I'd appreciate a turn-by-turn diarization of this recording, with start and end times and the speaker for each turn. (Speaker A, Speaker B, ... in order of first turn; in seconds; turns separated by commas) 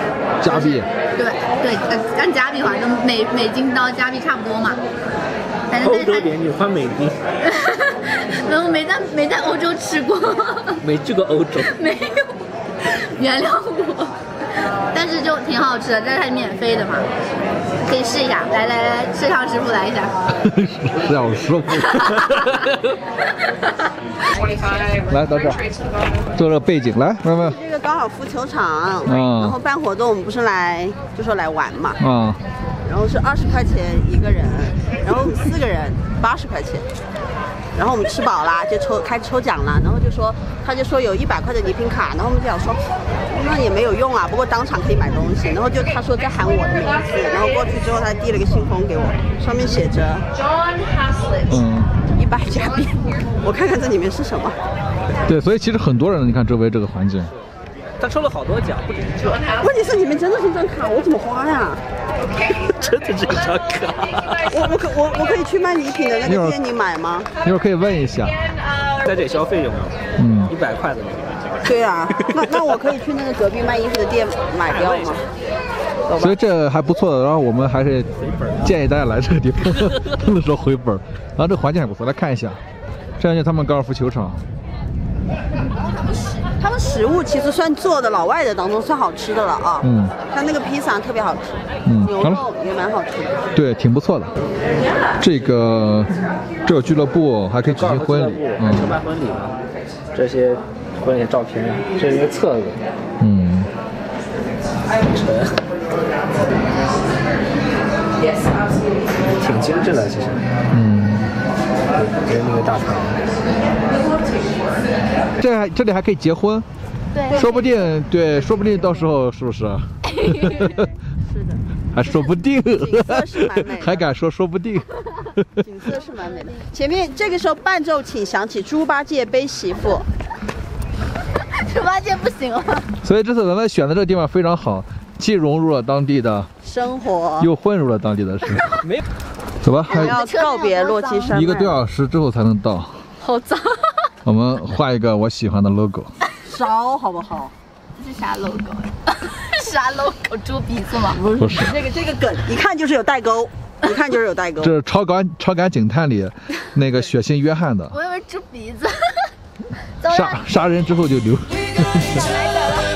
Speaker A: 0.4-0.9, Speaker B: 0.4-4.8, Speaker B: 5.7-6.3, Speaker C: 5.8-7.2, Speaker B: 7.4-10.8, Speaker C: 10.8-11.7, Speaker B: 11.6-14.1, Speaker B: 14.9-17.1, Speaker B: 17.8-20.1, Speaker A: 20.4-22.2, Speaker B: 22.0-22.6, Speaker B: 23.4-23.9, Speaker A: 25.1-25.7, Speaker A: 26.4-27.6, Speaker D: 27.3-32.0, Speaker A: 29.0-29.6, Speaker A: 32.0-32.4, Speaker D: 32.9-36.9, Speaker D: 37.8-50.2, Speaker A: 51.5-51.9, Speaker D: 52.1-54.6, Speaker A: 55.2-57.3, Speaker C: 58.0-59.4, Speaker D: 59.6-61.8, Speaker C: 62.5-64.5, Speaker D: 64.5-67.3, Speaker A: 66.2-66.6, Speaker A: 67.4-68.4, Speaker C: 69.0-70.0, Speaker A: 70.2-70.5, Speaker C: 70.5-71.3, Speaker D: 71.7-75.2, Speaker C: 72.2-72.6, Speaker C: 74.6-75.2, Speaker D: 76.1-76.4, Speaker A: 76.2-82.6, Speaker C: 78.2-78.7, Speaker A: 83.2-84.4, Speaker D: 86.6-93.5, Speaker A: 89.8-90.1, Speaker A: 91.8-92.5, Speaker A: 93.5-94.3, Speaker A: 95.2-96.1, Speaker A: 96.6-99.0, Speaker C: 97.6-99.6, Speaker C: 100.1-102.8, Speaker A: 103.2-103.7, Speaker C: 105.1-105.5, Speaker C: 109.4-110.4, Speaker A: 110.7-111.3, Speaker C: 112.0-113.2, Speaker A: 115.4-116.7, Speaker B: 117.1-117.6, Speaker D: 117.3-117.9, Speaker A: 117.3-120.8, Speaker D: 120.5-121.6, Speaker A: 121.9-125.5, Speaker D: 122.6-124.1, Speaker D: 125.6-130.0, Speaker B: 131.5-132.9, Speaker A: 133.0-136.5, Speaker D: 136.6-137.5, Speaker A: 137.4-138.8, Speaker A: 139.6-140.2, Speaker D: 139.9-141.8, Speaker B: 139.9-141.4, Speaker A: 141.3-143.0, Speaker B: 143.2-144.1, Speaker A: 144.2-146.1, Speaker D: 146.4-147.5, Speaker B: 148.0-151.2, Speaker D: 151.1-154.7, Speaker A: 151.4-151.7, Speaker A: 154.6-158.0, Speaker B: 157.9-159.3, Speaker B: 160.0-160.4, Speaker A: 160.1-162.2